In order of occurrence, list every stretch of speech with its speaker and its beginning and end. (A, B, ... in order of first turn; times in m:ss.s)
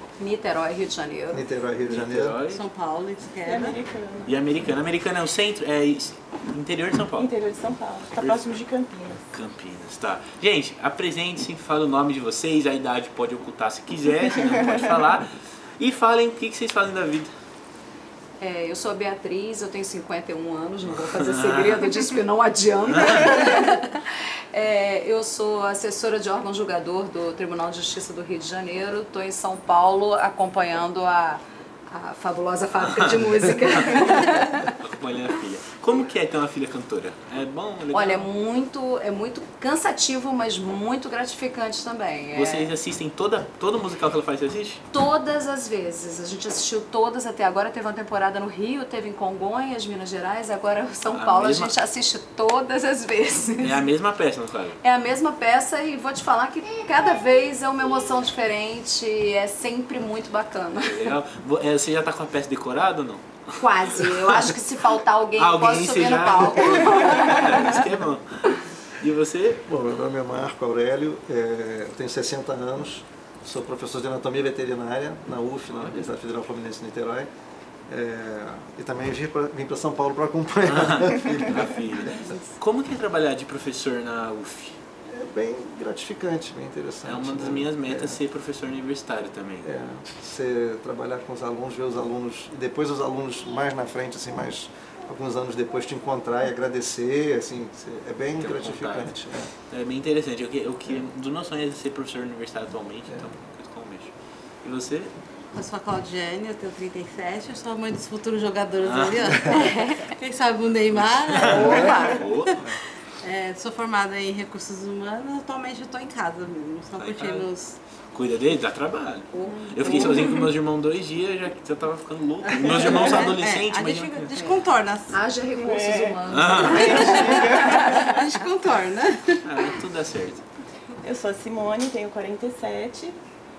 0:00.2-0:01.5 A
0:01.3-0:02.4 B
0:01.9-0:02.6 C
0:02.5-0:03.8 D
0:03.4-0:04.3 E
0:04.2-0:07.3 C
0:07.2-0:09.2 E
0:08.1-0:08.6 C
0:09.3-0:15.2 C
0:15.8-0:17.3 C
0:18.4-0:34.8 A
0:20.9-0:22.0 C
0:22.9-0:23.3 C
0:32.8-0:38.3 C
0:37.9-0:42.7 A
0:42.3-0:44.8 C
0:44.9-0:53.8 A
0:51.1-0:51.7 C
0:53.6-0:54.8 C
0:54.8-1:01.2 A
1:00.8-1:04.5 C
1:03.6-1:07.9 A
1:05.4-1:08.2 C
1:09.0-1:09.6 C
1:09.7-1:17.3 B
1:17.9-1:22.3 B
1:20.6-1:24.8 C
1:25.1-1:28.2 B
1:27.0-1:29.7 C
1:29.6-1:39.5 B
1:38.4-1:39.2 C
1:39.7-1:45.1 C
1:45.5-1:52.6 D
1:48.8-1:49.3 C
1:49.4-1:50.1 A
1:50.9-1:52.6 C
1:51.4-1:52.2 A
1:51.4-1:52.8 B
1:53.2-1:57.8 D
1:57.0-1:57.5 C
1:58.1-2:04.5 C
1:59.3-2:00.5 A
1:59.5-2:00.2 E
2:02.4-2:05.2 D
2:02.6-2:03.3 E
2:05.1-2:08.1 A
2:05.5-2:08.3 E
2:06.3-2:07.2 C
2:06.6-2:09.7 D
2:09.4-2:10.4 C
2:11.0-2:13.2 E